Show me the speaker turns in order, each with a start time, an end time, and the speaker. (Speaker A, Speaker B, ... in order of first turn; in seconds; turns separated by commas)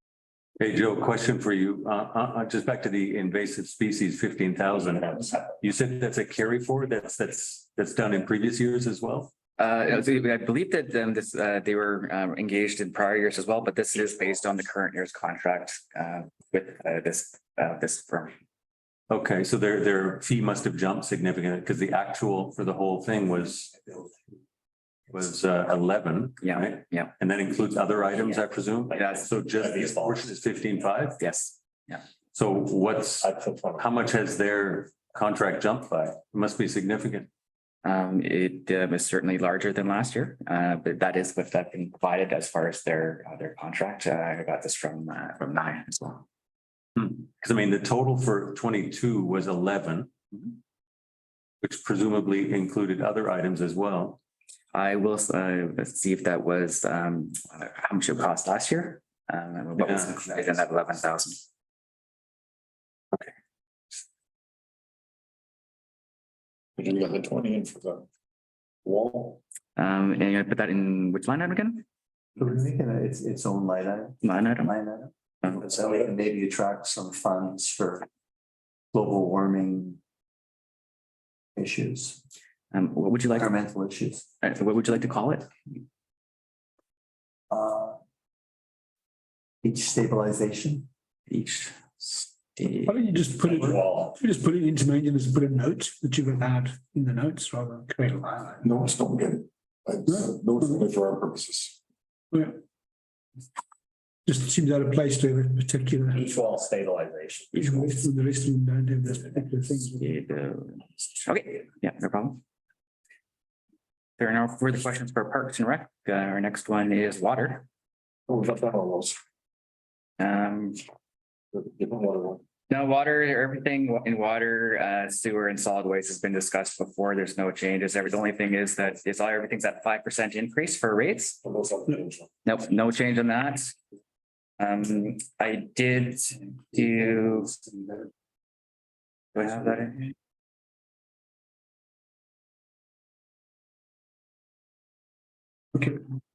Speaker A: 0.6-5.1, Speaker B: 4.6-5.7, Speaker A: 5.6-9.3, Speaker C: 9.6-18.3, Speaker A: 19.1-23.7, Speaker D: 23.7-24.2, Speaker A: 25.1-31.2, Speaker C: 26.4-27.1, Speaker B: 28.3-30.4, Speaker C: 29.0-29.3, Speaker C: 31.2-32.0, Speaker A: 32.3-37.3, Speaker B: 33.2-34.0, Speaker C: 37.8-46.2, Speaker A: 47.0-50.1, Speaker A: 51.6-54.2, Speaker C: 54.7-61.4, Speaker A: 59.8-60.1, Speaker E: 66.8-68.1, Speaker E: 68.8-69.4, Speaker C: 69.8-71.8, Speaker D: 72.4-78.1, Speaker C: 74.2-74.8, Speaker D: 78.9-80.0, Speaker D: 81.6-82.2, Speaker C: 82.7-83.6, Speaker D: 83.3-84.3, Speaker C: 84.4-85.7, Speaker D: 87.5-88.0, Speaker D: 89.6-90.9, Speaker C: 91.3-93.0, Speaker F: 92.8-98.6, Speaker B: 93.4-94.2, Speaker E: 98.6-101.8, Speaker F: 100.1-100.9, Speaker F: 102.3-102.6, Speaker F: 104.2-106.3, Speaker B: 106.1-107.9, Speaker F: 107.5-110.1, Speaker C: 109.8-112.4, Speaker C: 114.2-117.7, Speaker E: 118.3-119.2, Speaker C: 120.2-120.8, Speaker E: 121.5-122.4, Speaker C: 122.7-131.4, Speaker E: 131.4-132.3, Speaker C: 132.4-133.8, Speaker C: 134.6-137.7, Speaker C: 139.3-140.1